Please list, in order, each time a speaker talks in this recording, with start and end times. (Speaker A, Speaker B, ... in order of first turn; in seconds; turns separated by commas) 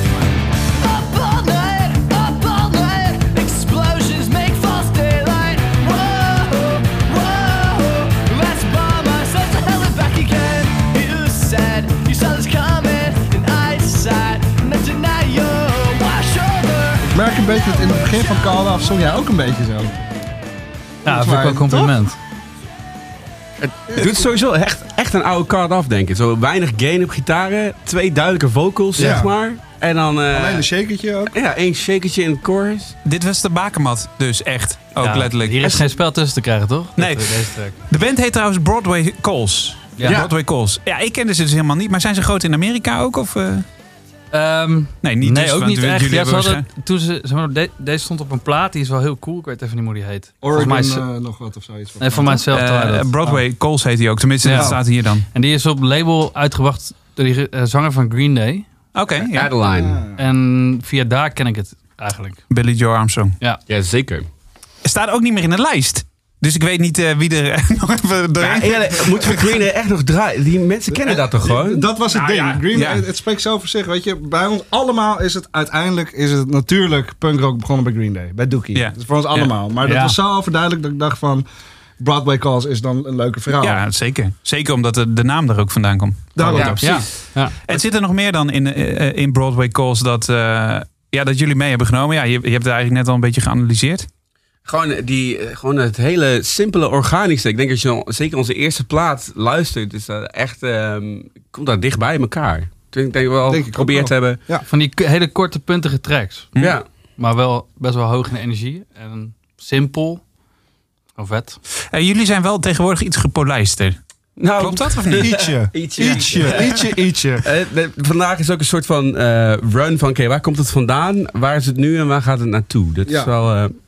Speaker A: 0.8-18.2, Speaker B: 17.0-20.0, Speaker C: 21.1-22.2, Speaker B: 21.1-22.0, Speaker D: 23.6-30.7, Speaker B: 29.0-29.3, Speaker B: 30.3-31.3, Speaker D: 31.3-33.0, Speaker E: 33.0-35.9, Speaker C: 35.0-37.8, Speaker E: 37.0-43.6, Speaker C: 40.0-40.2, Speaker D: 40.0-40.3, Speaker C: 44.3-51.0, Speaker E: 45.0-46.7, Speaker B: 50.4-52.4, Speaker C: 52.0-53.4, Speaker E: 52.5-55.2, Speaker C: 54.4-54.8, Speaker B: 54.5-54.8, Speaker C: 55.3-58.7, Speaker E: 59.0-59.5, Speaker D: 59.3-60.0, Speaker B: 59.7-60.2, Speaker C: 60.2-62.4, Speaker E: 62.5-63.4, Speaker D: 63.7-64.3, Speaker E: 64.8-69.4, Speaker D: 68.4-71.9, Speaker B: 70.9-81.5, Speaker E: 72.1-73.0, Speaker E: 78.7-79.5, Speaker C: 79.8-80.2, Speaker B: 82.0-83.8, Speaker E: 83.6-87.0, Speaker B: 86.4-87.0, Speaker D: 86.5-87.1, Speaker C: 86.8-87.5, Speaker E: 87.6-94.1, Speaker D: 94.7-104.4, Speaker B: 103.5-104.7, Speaker C: 104.7-106.5, Speaker D: 106.6-106.8, Speaker C: 107.2-110.2, Speaker C: 111.2-111.6, Speaker E: 111.9-114.0, Speaker D: 114.4-116.8, Speaker E: 114.6-115.3, Speaker B: 115.1-117.5, Speaker E: 116.0-116.8, Speaker D: 117.4-123.8, Speaker B: 123.1-123.3